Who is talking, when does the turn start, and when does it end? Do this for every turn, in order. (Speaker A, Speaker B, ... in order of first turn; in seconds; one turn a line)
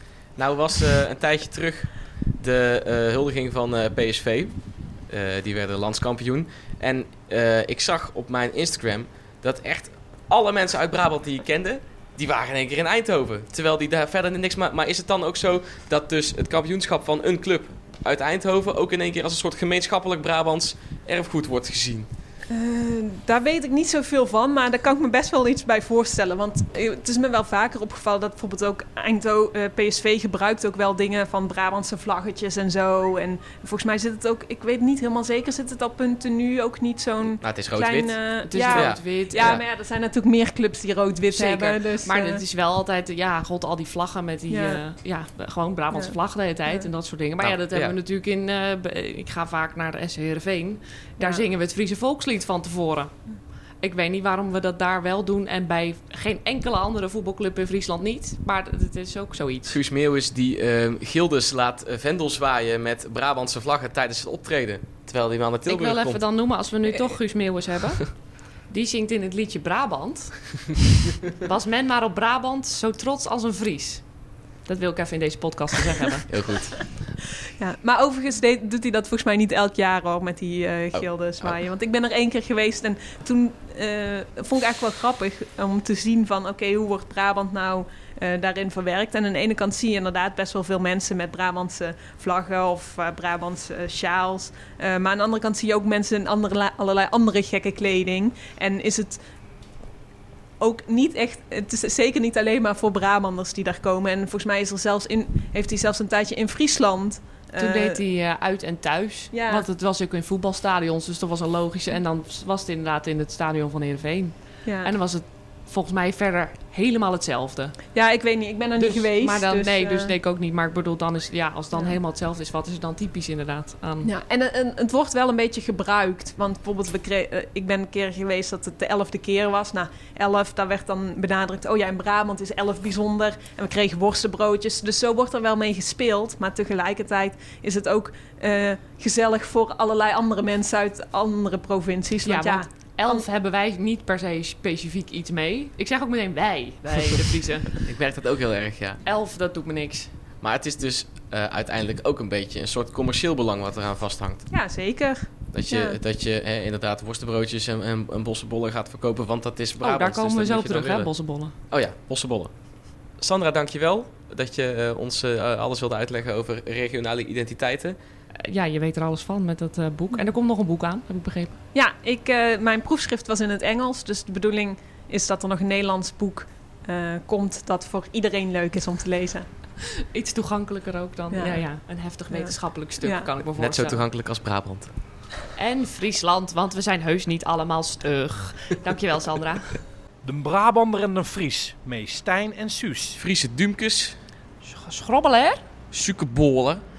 Speaker A: 0.4-22.1
Speaker B: 22.5-42.4
Speaker A: 37.4-39.6
Speaker C: 38.5-39.6
Speaker C: 41.3-53.2
Speaker B: 44.5-44.8
Speaker A: 47.4-48.0
Speaker B: 51.2-51.5
Speaker C: 53.8-59.8
Speaker A: 59.7-66.2
Speaker C: 65.7-70.7
Speaker C: 71.4-76.3
Speaker A: 76.3-76.9
Speaker B: 77.6-99.2
Speaker A: 80.9-81.6
Speaker B: 100.6-108.0
Speaker C: 107.6-117.8
Speaker B: 109.3-109.7
Speaker B: 114.7-114.9
Speaker B: 117.9-120.1
Speaker C: 118.8-124.1
Speaker B: 124.0-143.3
Speaker C: 142.2-147.7
Speaker A: 147.7-149.0
Speaker C: 149.1-150.1
Speaker A: 150.4-154.5
Speaker B: 154.5-156.0
Speaker A: 155.5-161.1
Speaker C: 159.8-161.5
Speaker A: 161.7-168.0
Speaker C: 168.4-171.6
Speaker B: 171.7-179.5
Speaker C: 179.9-184.0
Speaker B: 181.3-181.7
Speaker B: 182.3-183.3
Speaker A: 183.6-184.9
Speaker C: 185.6-189.8
Speaker D: 190.2-193.2
Speaker A: 193.2-194.2
Speaker C: 194.6-195.6
Speaker A: 195.9-196.8